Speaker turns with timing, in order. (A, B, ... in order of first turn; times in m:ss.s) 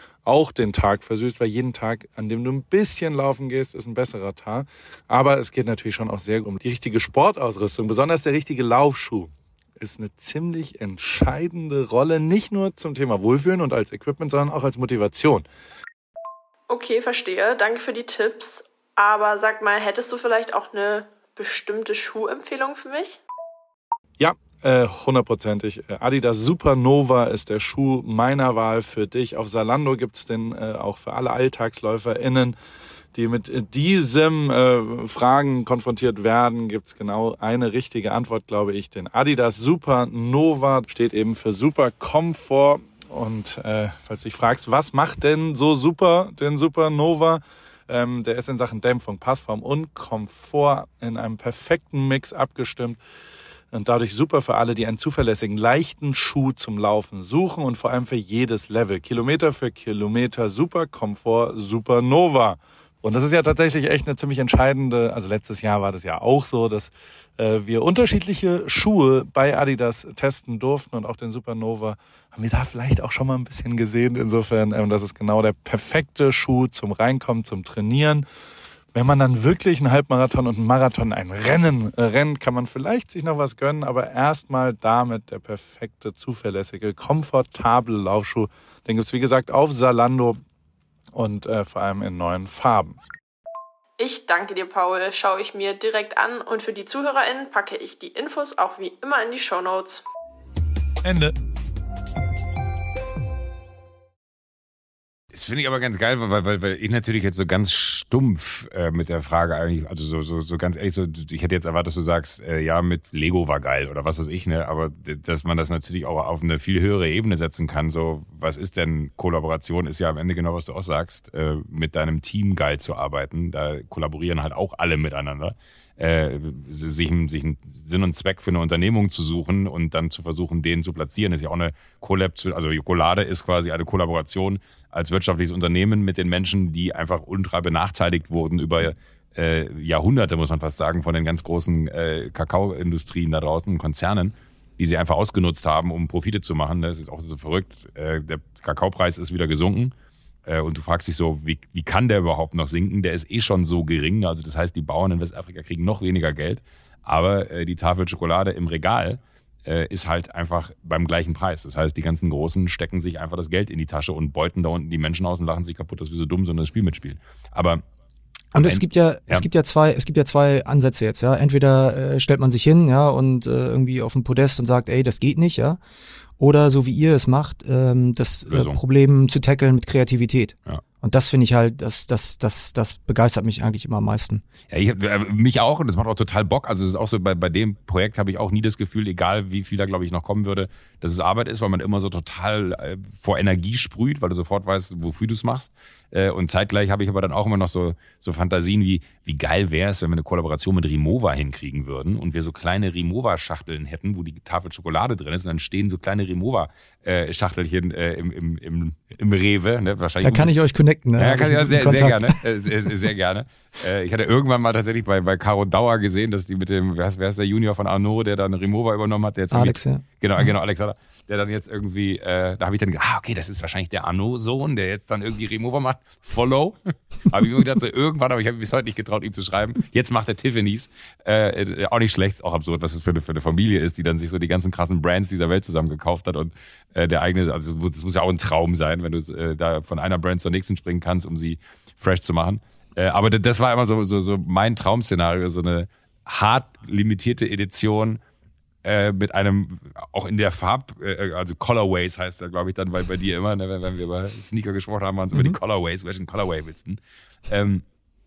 0:00.2-0:15.4 A
0:16.7-0:23.2 B
0:24.2-0:32.6 A
0:33.1-0:53.0 A
0:53.7-1:18.2 A
1:18.9-1:30.4 A
1:31.1-1:33.0 A
1:34.0-1:40.0 B
1:41.0-1:41.3 A
1:45.3-2:29.9 C
2:30.4-2:47.8 C
2:48.5-2:49.4 C
2:48.6-2:55.8 D
2:56.4-3:04.4 D
2:58.5-2:58.8 C
3:04.7-3:30.5 C
3:30.2-3:32.4 D
3:31.2-4:08.2 C
3:39.5-3:40.5 D
4:08.8-4:17.8 C